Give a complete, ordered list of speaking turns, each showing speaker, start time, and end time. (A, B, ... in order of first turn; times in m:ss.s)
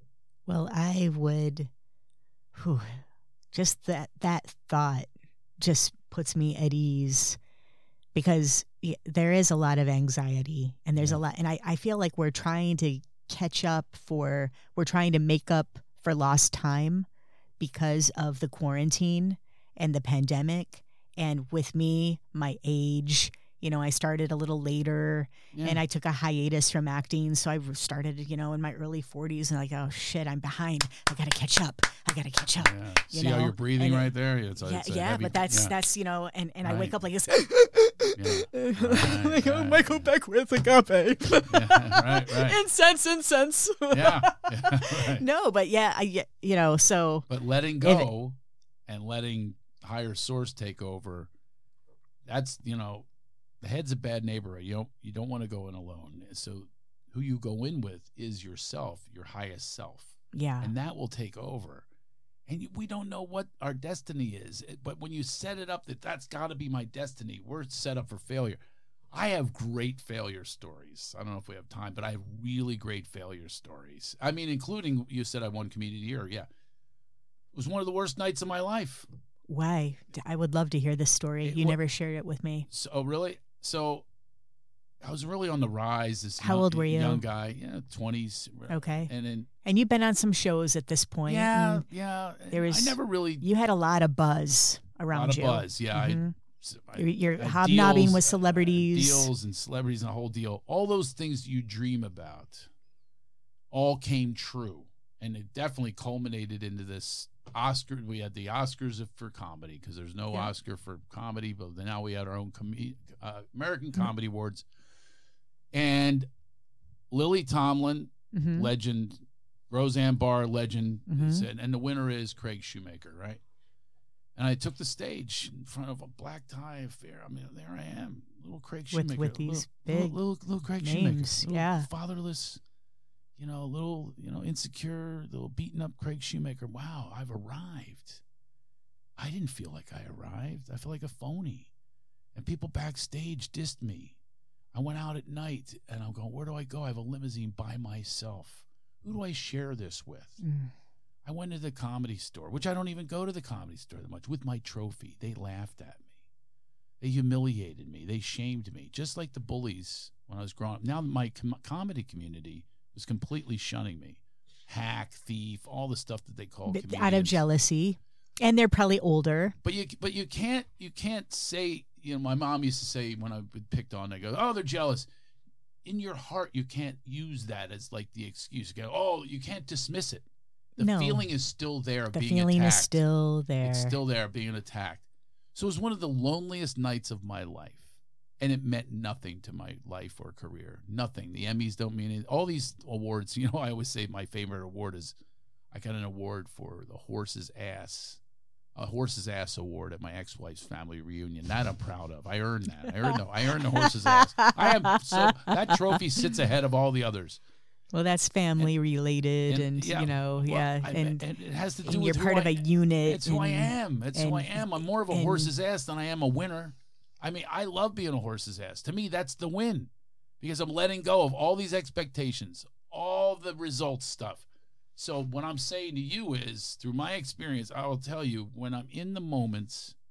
0:00.5-0:01.7 A
0:02.5-0:05.1 A
0:05.6-0:07.4 A
0:08.1-0:17.1 A
0:11.0-0:11.2 B
0:17.6-0:47.3 A
0:25.5-0:25.8 B
0:32.6-0:35.7 B
0:36.6-0:37.0 B
0:38.1-0:40.1 B
0:41.5-0:42.6 B
0:43.9-0:45.2 B
0:47.3-0:51.3 B
0:47.8-0:48.1 A
0:52.2-0:53.1 B
0:53.6-1:01.9 B
1:00.3-1:00.7 A
1:02.5-1:08.6 B
1:09.1-1:16.5 B
1:17.5-1:19.0 B
1:19.5-1:22.7 A
1:21.4-1:21.8 B
1:22.7-1:24.0 B
1:25.0-1:29.5 B
1:26.4-1:27.2 A
1:28.7-1:29.1 A
1:29.6-1:31.8 A
1:31.2-1:33.4 B
1:32.5-1:36.4 A
1:35.1-1:42.7 B
1:37.0-1:39.3 A
1:43.7-1:54.7 B
1:55.7-1:56.3 B
1:57.1-2:03.4 B
1:58.3-1:58.7 A
2:01.1-2:01.5 A
2:04.4-2:12.6 B
2:08.9-2:10.2 A
2:10.8-2:11.9 A
2:13.4-2:18.2 B
2:19.2-2:21.7 B
2:22.3-2:24.2 B
2:24.7-2:30.4 B
2:30.4-2:30.7 A
2:31.2-2:36.1 B
2:37.0-2:47.4 B
2:46.6-2:49.6 A
2:49.6-2:55.1 B
2:55.8-3:00.2 B
3:00.8-3:01.2 A
3:00.8-3:03.0 B
3:02.1-3:04.0 A
3:03.6-3:15.2 B
3:15.7-3:18.2 B
3:18.7-3:27.4 B
3:22.8-3:26.3 A
3:27.9-3:31.2 A
3:29.5-3:50.0 B
3:31.8-3:35.5 A